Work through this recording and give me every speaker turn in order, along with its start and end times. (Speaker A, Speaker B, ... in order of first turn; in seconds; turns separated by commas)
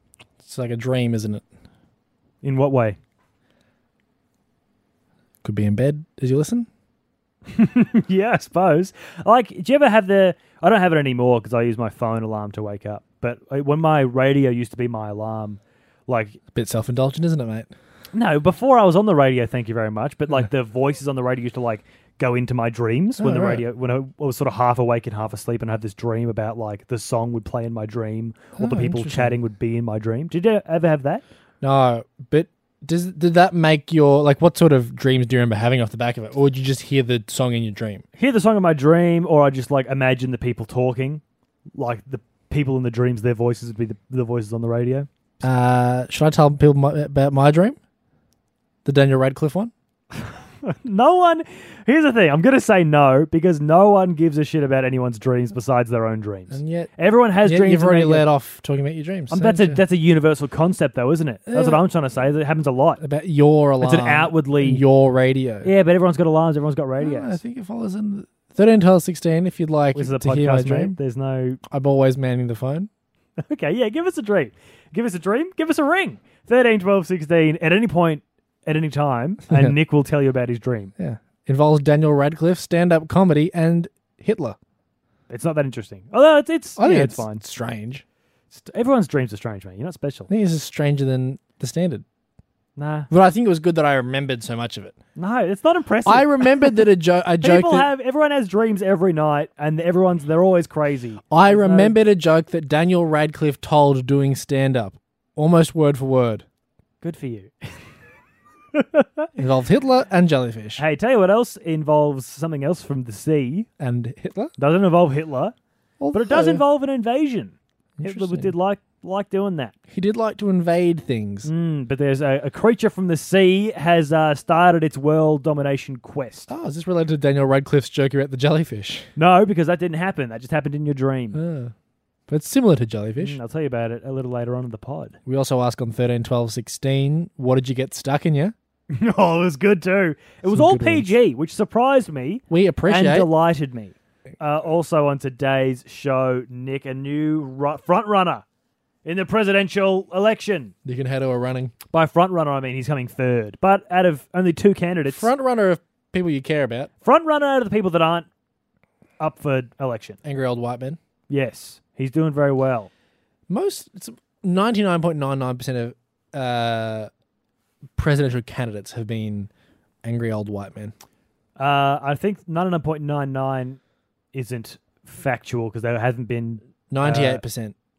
Speaker A: 0.4-1.4, Speaker B: 2.4-3.0, Speaker A: 5.4-6.7, Speaker B: 7.5-16.4, Speaker A: 16.5-17.7, Speaker B: 18.1-31.2, Speaker A: 23.2-23.6, Speaker A: 28.6-29.4, Speaker A: 31.6-38.0, Speaker B: 38.2-41.2, Speaker B: 41.7-45.1, Speaker A: 45.4-47.8, Speaker A: 48.8-49.7, Speaker B: 50.6-58.3, Speaker A: 56.5-59.8, Speaker B: 59.3-63.0, Speaker A: 61.5-61.8, Speaker A: 63.0-65.7, Speaker B: 63.8-64.8, Speaker B: 65.6-67.4, Speaker A: 67.0-71.0, Speaker B: 69.9-71.6, Speaker A: 71.7-72.9, Speaker B: 73.4-80.9, Speaker A: 79.5-79.8, Speaker A: 81.0-84.6, Speaker B: 85.3-87.4, Speaker A: 86.8-88.0, Speaker B: 88.5-90.3, Speaker A: 90.3-92.0, Speaker B: 92.8-93.1, Speaker A: 93.1-94.9, Speaker B: 95.2-96.8, Speaker A: 96.0-97.9, Speaker B: 97.4-102.0, Speaker A: 101.3-106.4, Speaker B: 107.0-107.8, Speaker B: 108.7-109.3, Speaker A: 109.4-110.8, Speaker B: 110.8-113.7, Speaker A: 113.8-114.5, Speaker B: 114.6-115.5, Speaker A: 116.0-116.6, Speaker B: 116.1-119.7, Speaker A: 118.0-118.5, Speaker A: 119.9-121.5, Speaker B: 121.4-126.5, Speaker A: 126.5-129.1, Speaker B: 129.2-131.4, Speaker A: 131.3-131.7, Speaker A: 132.3-133.4, Speaker B: 133.2-135.2, Speaker A: 135.2-138.5, Speaker B: 138.9-148.4, Speaker A: 140.4-141.1, Speaker A: 142.5-143.3, Speaker B: 149.0-150.7, Speaker A: 150.8-151.7, Speaker B: 151.9-155.3, Speaker A: 155.1-156.9, Speaker B: 157.0-158.2, Speaker B: 159.2-160.2, Speaker A: 160.2-161.0, Speaker B: 161.3-162.9, Speaker A: 163.5-167.1, Speaker A: 168.0-169.5, Speaker A: 170.0-170.9, Speaker B: 171.6-173.8, Speaker B: 174.3-177.4, Speaker A: 176.9-177.7